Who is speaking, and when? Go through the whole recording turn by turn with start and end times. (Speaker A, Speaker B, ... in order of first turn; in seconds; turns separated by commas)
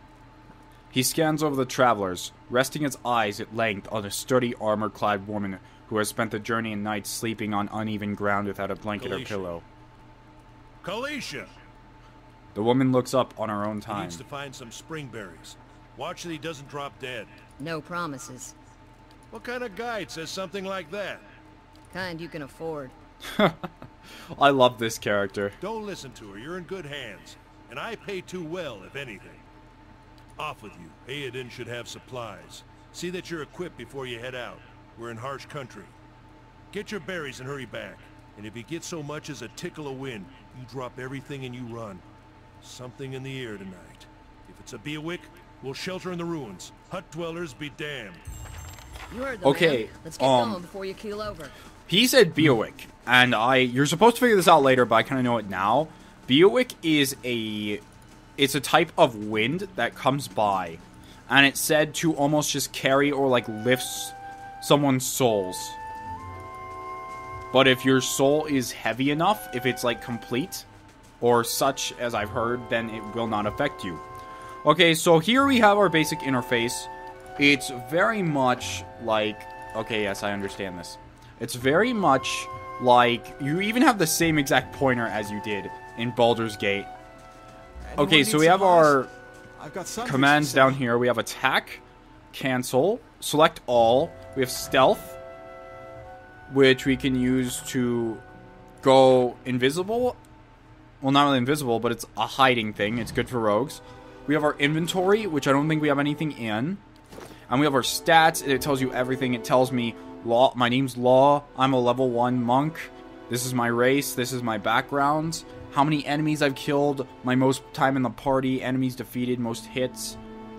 Speaker A: 0.9-9.6, Speaker B: 9.0-9.5, Speaker B: 10.8-11.5, Speaker A: 12.6-14.2, Speaker B: 13.9-17.3, Speaker C: 17.6-18.6, Speaker B: 19.3-21.2, Speaker C: 21.9-22.9, Speaker A: 23.2-23.7, Speaker A: 24.3-25.6, Speaker B: 25.6-29.4, Speaker B: 30.4-35.9, Speaker B: 36.7-42.0, Speaker B: 42.6-48.2, Speaker C: 49.1-51.5, Speaker A: 49.4-50.6, Speaker A: 51.9-57.8, Speaker A: 58.4-65.8, Speaker A: 67.5-70.7, Speaker A: 71.2-74.0, Speaker A: 74.6-86.9, Speaker D: 87.8-89.1, Speaker A: 88.0-89.1, Speaker D: 89.6-90.8, Speaker A: 90.0-95.2, Speaker A: 96.5-98.2, Speaker A: 98.8-100.2, Speaker A: 101.0-106.8, Speaker A: 107.5-120.2